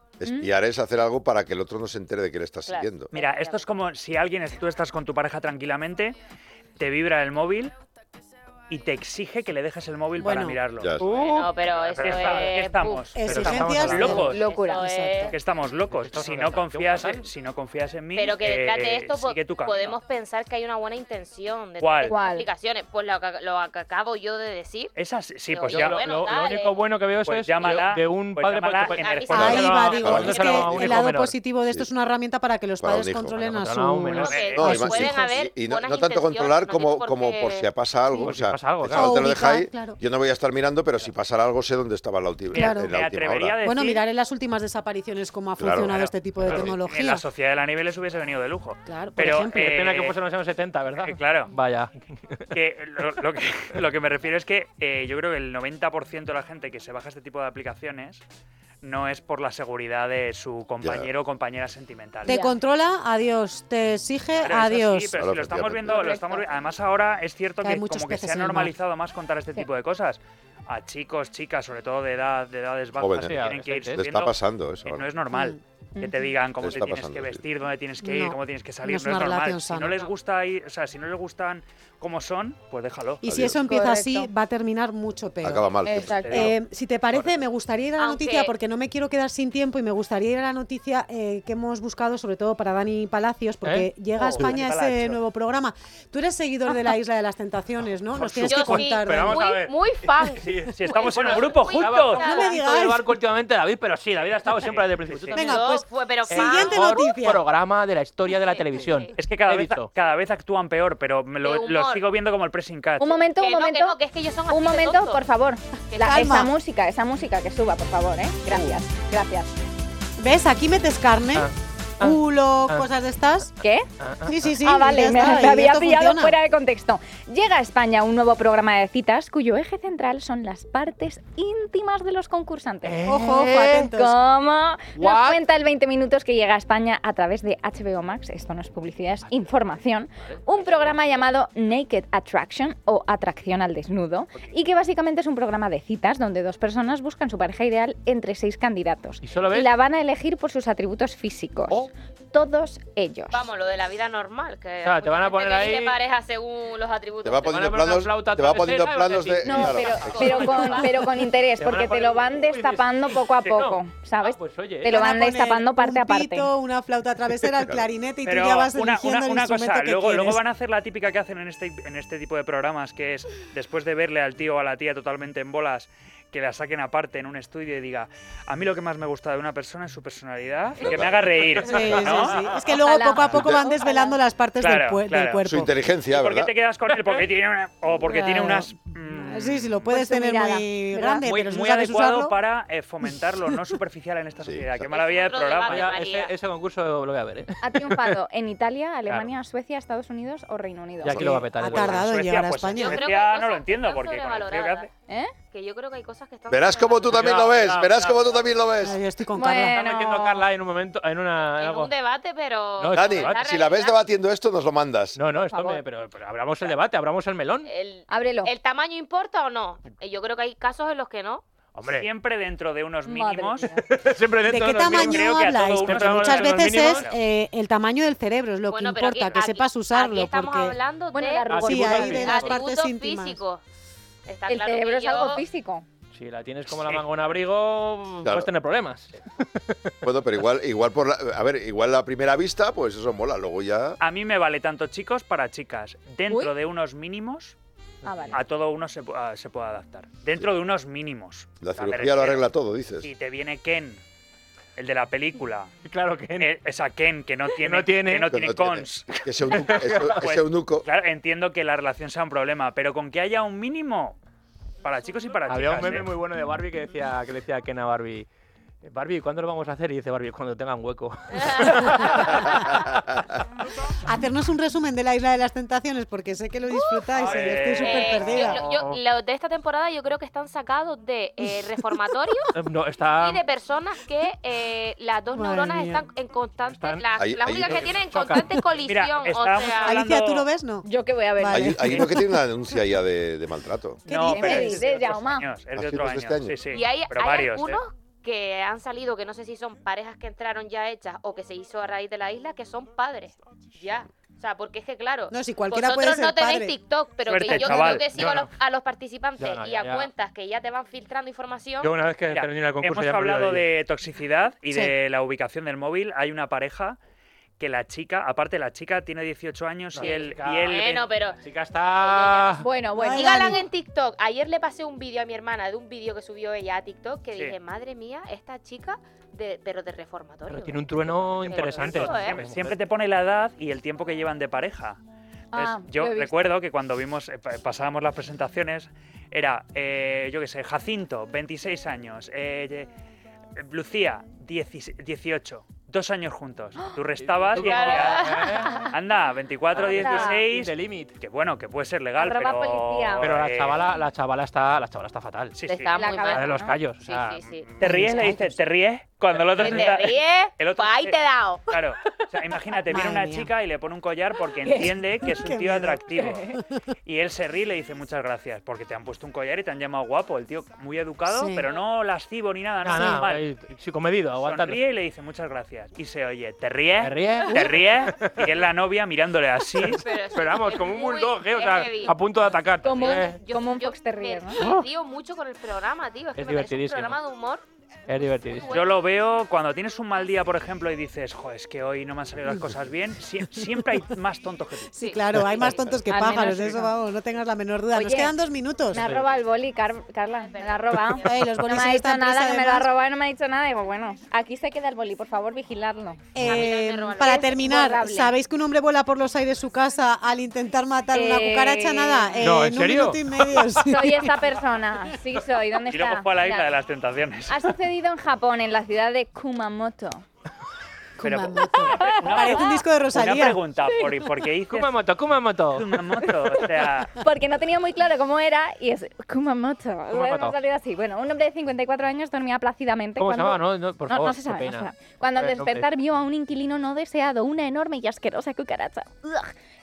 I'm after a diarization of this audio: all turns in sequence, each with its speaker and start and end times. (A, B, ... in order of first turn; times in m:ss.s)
0:00.2-0:03.1 A
0:00.3-0:00.5 B
0:02.7-0:03.6 C
0:03.1-0:06.2 D
0:06.8-0:07.7 D
0:08.7-0:11.0 D
0:10.2-0:10.6 E
0:10.8-0:11.0 A
0:11.0-0:12.5 F
0:11.1-0:13.5 C
0:11.7-0:14.5 D
0:13.1-0:15.4 E
0:13.2-0:14.4 F
0:14.1-0:15.3 C
0:14.2-0:14.9 B
0:15.3-0:20.0 D
0:15.9-0:17.3 F
0:18.2-0:24.9 C
0:21.8-0:22.2 D
0:22.1-0:22.5 B
0:25.0-0:26.3 D
0:25.5-0:26.8 C
0:25.7-0:31.4 F
0:27.2-0:29.9 D
0:28.9-0:30.7 C
0:29.3-0:35.3 E
0:29.3-0:31.0 A
0:32.8-0:33.4 A
0:33.4-0:34.9 F
0:34.2-0:34.8 D
0:34.2-0:37.7 C
0:34.6-0:43.6 A
0:38.2-0:39.2 F
0:38.9-0:40.0 E
0:42.5-0:44.0 D
0:42.5-0:42.9 E
0:43.6-0:47.2 E
0:45.6-0:46.8 A
0:45.8-0:50.2 D
0:48.9-0:49.7 E
0:49.5-0:52.5 F
0:50.9-0:51.5 D
0:52.5-0:58.2 D
0:58.8-1:02.4 D
1:00.8-1:01.1 A
1:02.2-1:02.6 B
1:02.2-1:05.2 E
1:04.4-1:23.4 D
1:05.2-1:06.1 A
1:07.6-1:08.7 E
1:13.0-1:15.0 A
1:13.2-1:14.0 F
1:15.3-1:15.6 E
1:16.0-1:16.3 B
1:16.6-1:17.4 A
1:18.0-1:20.0 E
1:23.2-1:25.7 E
1:23.2-1:23.6 A
1:23.6-1:24.3 B
1:25.4-1:26.5 A
1:25.8-1:26.5 B
1:26.2-1:26.6 D
1:26.3-1:39.5 E
1:28.0-1:28.5 C
1:33.6-1:33.9 F
1:34.1-1:35.2 D
1:38.2-1:45.7 F
1:38.5-1:42.6 C
1:40.7-1:42.4 D
1:42.2-1:43.1 E
1:44.2-1:45.4 D
1:45.3-1:46.8 C
1:45.3-1:47.4 E
1:46.3-1:49.9 F
1:48.3-1:49.1 C
1:49.2-1:53.1 D
1:51.4-1:52.1 C
1:53.0-1:54.0 B
1:53.2-1:55.3 C
1:54.5-1:59.5 B
1:55.9-1:56.3 C
1:56.0-1:56.5 E
1:58.5-1:58.8 E
2:00.2-2:01.5 E
2:01.4-2:02.9 F
2:02.0-2:03.5 E
2:03.6-2:03.9 B
2:04.0-2:04.3 F
2:04.2-2:06.4 E
2:04.6-2:33.4 B
2:12.8-2:13.9 F
2:13.1-2:14.2 E
2:15.0-2:15.4 F
2:29.2-2:29.7 F
2:33.3-2:37.6 C
2:34.8-2:36.0 F
2:37.2-2:40.1 A
2:37.5-2:44.9 F
2:39.4-2:46.5 B
2:40.0-2:41.0 C
2:40.0-2:40.6 D
2:44.8-2:50.4 E
2:47.6-2:47.9 A
2:48.2-3:02.5 D
3:00.8-3:01.8 A
3:01.6-3:05.7 E
3:02.5-3:04.2 B
3:03.3-3:03.6 A
3:04.6-3:05.5 D
3:05.4-3:06.5 A
3:06.1-3:09.9 D
3:08.0-3:12.4 E
3:09.9-3:11.3 B
3:11.2-3:16.0 D
3:13.0-3:13.6 E
3:14.4-3:14.9 A
3:14.9-3:16.3 C
3:15.7-3:18.2 F
3:17.6-3:21.4 B
3:21.0-3:22.1 F
3:21.1-3:23.0 E
3:21.7-3:24.9 D
3:22.7-3:24.9 C
3:25.1-3:25.3 B
3:25.5-3:27.5 C
3:26.5-3:29.0 A
3:27.1-3:28.7 F
3:28.8-3:29.8 E
3:29.4-3:30.5 B
3:29.5-3:31.9 F
3:31.6-3:34.1 C
3:32.8-3:33.4 F
3:32.9-3:35.2 A
3:35.2-3:37.7 F
3:35.4-3:35.8 B
3:37.7-3:41.4 C
3:38.1-3:38.5 B
3:41.8-3:42.1 F
3:41.9-3:43.7 D
3:43.1-3:43.9 B
3:43.8-3:47.1 F
3:44.5-3:50.8 E
3:44.8-3:47.2 D
3:48.7-3:53.6 C
3:51.1-3:52.2 B
3:51.5-3:52.6 F
3:51.6-3:53.4 E
3:54.3-3:55.4 C
3:54.5-3:55.9 B
3:56.1-3:59.9 F
3:56.7-3:57.1 D
3:58.2-3:58.5 A
4:00.0-4:04.0 A
4:04.0-4:07.6 D
4:06.3-4:06.5 B
4:08.0-4:08.4 B
4:08.0-4:08.4 F
4:08.3-4:12.5 D
4:11.6-4:13.1 A
4:13.0-4:14.0 D
4:14.8-4:15.7 D
4:15.9-4:16.5 F
4:16.4-4:19.1 D
4:17.6-4:18.4 F
4:18.3-4:20.9 A
4:19.5-4:20.2 F
4:20.1-4:24.2 D
4:24.8-4:26.2 D
4:25.5-4:28.3 F
4:28.8-4:32.9 F
4:31.4-4:31.9 C
4:32.5-4:33.2 A
4:34.0-4:38.6 E
4:36.7-4:42.5 C
4:37.1-4:38.5 D
4:38.4-4:39.0 F
4:42.6-4:43.4 F
4:43.2-4:50.0 C
4:45.3-4:46.1 E
4:46.7-4:48.6 F
4:47.2-4:47.9 A
4:48.8-4:50.5 D
4:49.8-4:50.8 E
4:50.8-4:52.0 B
4:51.4-4:52.3 E
4:51.5-4:54.0 A
4:54.1-4:57.8 D
4:54.1-4:54.8 E
4:54.3-4:55.5 B
4:55.8-4:56.6 A
4:56.7-5:11.9 C
5:05.3-5:06.8 E
5:07.3-5:08.1 D
5:07.4-5:08.0 E
5:08.1-5:08.5 F
5:09.4-5:10.1 F
5:11.8-5:13.6 F
5:12.3-5:17.0 D
5:17.6-5:21.1 D
5:19.9-5:20.8 F
5:20.0-5:32.4 C
5:21.4-5:22.7 F
5:22.6-5:23.6 B
5:22.9-5:23.6 E
5:30.5-5:32.8 F
5:31.6-5:35.0 D
5:35.5-5:36.5 B
5:35.5-5:42.9 D
5:43.6-5:53.9 D
5:47.2-5:49.0 F
5:47.5-5:48.9 C
5:49.7-5:51.1 F
5:49.8-5:50.4 B
5:52.2-5:53.3 B
5:53.2-5:55.6 F
5:55.6-5:56.2 D
5:55.7-5:57.7 C
5:56.0-5:56.8 B
5:56.3-5:58.3 F
5:57.8-6:06.5 D
5:57.8-5:58.4 E
5:59.6-6:01.7 C
6:02.9-6:03.5 E
6:04.6-6:05.0 B
6:05.3-6:06.8 E
6:06.2-6:06.5 B
6:07.0-6:13.5 D
6:11.3-6:11.6 E
6:11.6-6:11.8 C
6:12.8-6:14.8 F
6:14.4-6:20.0 D
6:17.0-6:18.5 F
6:19.8-6:23.4 F
6:20.0-6:22.2 C
6:22.8-6:24.6 B
6:22.9-6:27.6 C
6:24.6-6:24.9 F
6:26.4-6:27.2 F
6:28.1-6:28.7 F
6:28.5-6:29.1 C
6:28.7-6:34.9 D
6:34.9-6:39.0 E
6:35.0-6:36.0 C
6:36.1-6:36.9 B
6:37.9-6:38.3 B
6:38.9-6:46.6 B
6:38.9-6:39.2 F
6:40.4-6:41.5 C
6:41.1-6:42.9 E
6:46.4-6:54.3 E
6:46.4-6:47.7 C
6:47.2-6:48.3 B
6:51.1-6:52.6 B
6:52.4-6:53.6 F
6:53.8-6:56.8 B
6:55.9-6:57.8 D
6:57.5-7:00.2 B
7:01.2-7:03.6 E
7:01.2-7:05.0 D
7:01.7-7:02.8 B
7:04.7-7:06.0 F
7:05.7-7:07.2 D
7:07.1-7:19.5 B
7:10.1-7:10.6 F
7:13.2-7:15.9 F